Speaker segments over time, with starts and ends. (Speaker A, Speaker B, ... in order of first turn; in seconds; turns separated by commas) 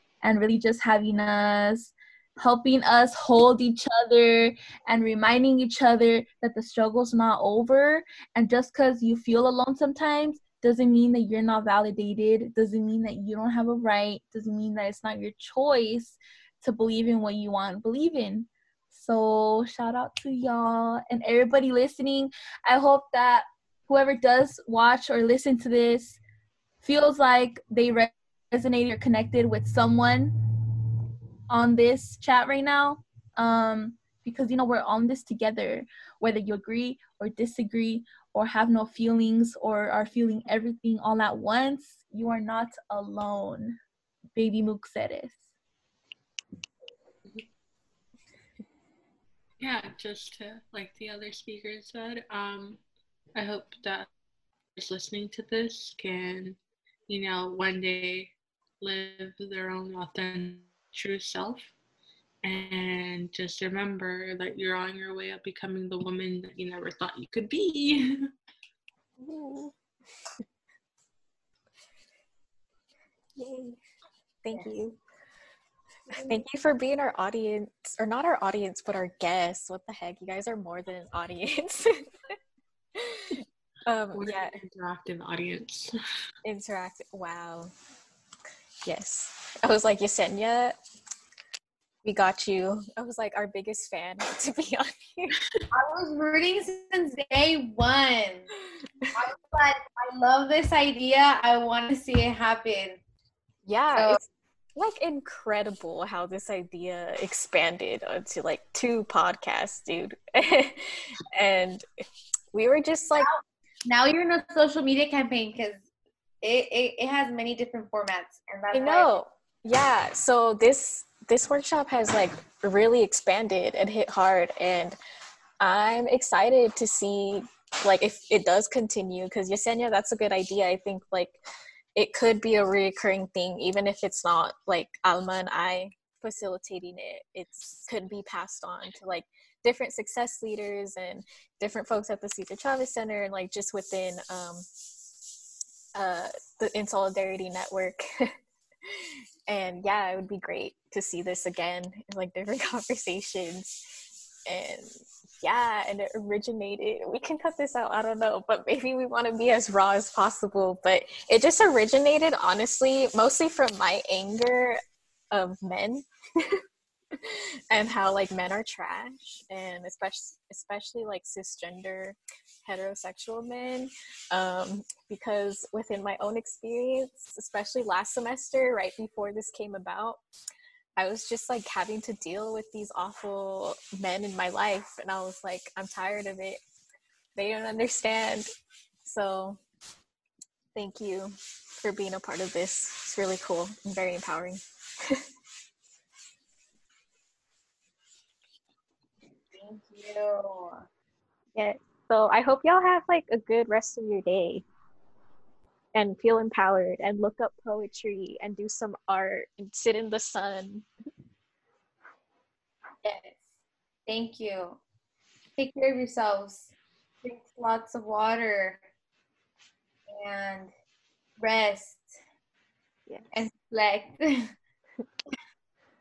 Speaker A: 0.2-26.2, Speaker A: 26.8-30.4, Speaker A: 31.5-43.8, Speaker A: 44.4-45.4, Speaker B: 49.6-52.8, Speaker B: 53.3-54.1, Speaker B: 54.8-61.7, Speaker B: 62.4-68.3, Speaker C: 69.2-69.7, Speaker C: 73.4-73.8, Speaker C: 74.4-75.0, Speaker C: 76.1-82.3, Speaker C: 82.9-84.6, Speaker B: 84.1-85.9, Speaker C: 86.4-87.7, Speaker C: 88.8-90.8, Speaker C: 92.0-95.4, Speaker D: 95.7-98.5, Speaker D: 99.1-103.0, Speaker C: 103.6-104.2, Speaker D: 103.9-104.2, Speaker C: 104.8-111.8, Speaker C: 112.5-113.3, Speaker D: 113.2-115.8, Speaker D: 116.4-119.1, Speaker C: 118.7-125.0, Speaker C: 125.6-131.4, Speaker C: 131.9-144.7, Speaker C: 145.9-148.3, Speaker C: 148.8-164.8, Speaker C: 165.3-166.6, Speaker C: 167.1-180.2, Speaker C: 181.0-186.6, Speaker C: 187.3-188.4, Speaker C: 189.0-189.6, Speaker C: 190.7-195.2, Speaker D: 199.5-200.8, Speaker C: 201.6-204.6, Speaker C: 205.9-210.9, Speaker D: 213.0-213.4, Speaker D: 214.1-214.8, Speaker D: 215.6-216.7, Speaker D: 217.2-218.8, Speaker D: 220.1-220.7, Speaker D: 221.4-222.1, Speaker D: 223.3-224.5